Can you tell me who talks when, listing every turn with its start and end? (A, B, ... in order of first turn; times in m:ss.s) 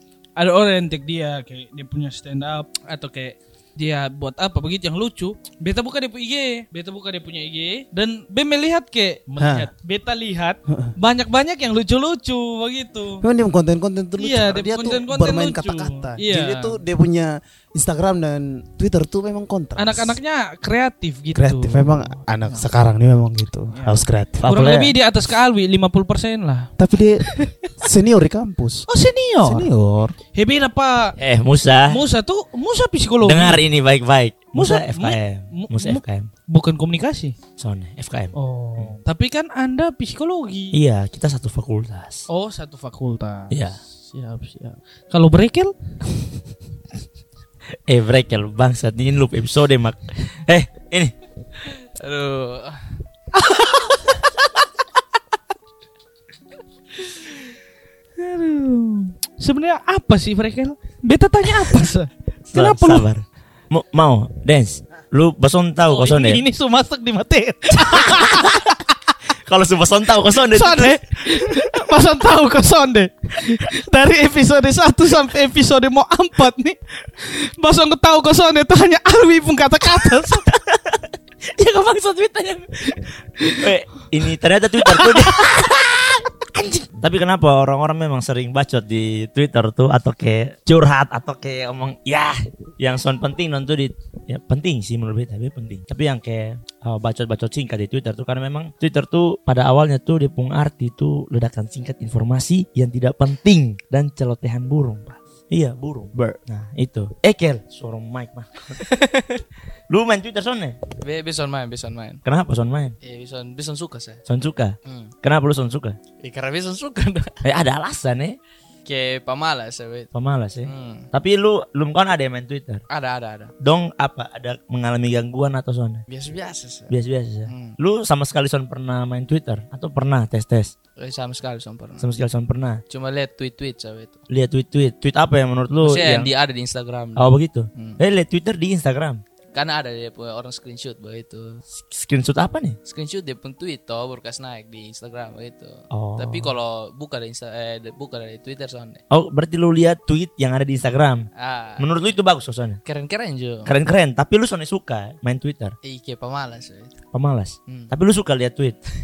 0:00.4-0:13.2 A
0:09.4-0:09.7 B
0:10.7-0:10.9 B
0:13.2-0:20.2 B
0:14.2-0:16.8 A
0:19.8-0:22.1 A
0:21.4-0:24.8 B
0:23.7-0:26.7 A
0:24.4-0:24.9 C
0:26.8-0:28.9 B
0:27.2-0:27.6 A
0:28.9-0:29.7 A
0:29.4-0:30.2 B
0:30.4-0:31.2 A
0:31.2-0:32.0 C
0:31.9-0:33.6 A
0:33.2-0:36.3 C
0:34.5-0:37.4 A
0:37.6-0:39.0 C
0:38.4-0:40.8 A
0:40.7-0:42.3 C
0:42.3-0:45.7 A
0:43.5-0:43.8 C
0:47.9-0:51.1 C
0:52.0-0:52.8 D
0:53.4-0:54.1 A
0:58.2-1:03.1 A
1:02.5-1:06.4 C
1:05.9-1:08.6 A
1:07.7-1:08.8 C
1:09.5-1:11.6 C
1:10.5-1:20.5 A
1:20.5-1:22.7 C
1:22.9-1:23.7 A
1:23.6-1:48.8 C
1:24.8-1:25.5 A
1:48.8-1:49.4 D
1:49.9-1:50.8 C
1:51.0-1:52.2 D
1:52.2-1:53.0 C
1:53.0-1:54.2 D
1:54.3-1:56.0 C
1:54.9-1:55.1 D
1:56.2-1:57.4 D
1:57.4-1:58.4 C
1:58.9-2:00.1 D
2:00.1-2:02.8 C
2:00.6-2:01.1 D
2:02.9-2:03.5 D
2:03.6-2:06.0 C
2:06.1-2:07.0 D
2:06.9-2:10.7 C
2:07.5-2:07.8 D
2:11.0-2:12.2 D
2:12.0-2:12.8 C
2:12.9-2:14.2 D
2:14.3-2:16.3 C
2:15.8-2:18.0 D
2:17.2-2:19.2 C
2:19.5-2:21.6 D
2:21.7-2:22.8 C
2:22.8-2:29.0 D
2:25.9-2:26.5 C
2:29.1-2:31.3 C
2:31.4-2:31.9 D
2:31.8-2:32.8 C
2:32.8-2:33.7 D
2:33.7-2:35.8 C
2:35.8-2:37.0 D
2:37.1-2:38.8 C
2:37.7-2:37.9 D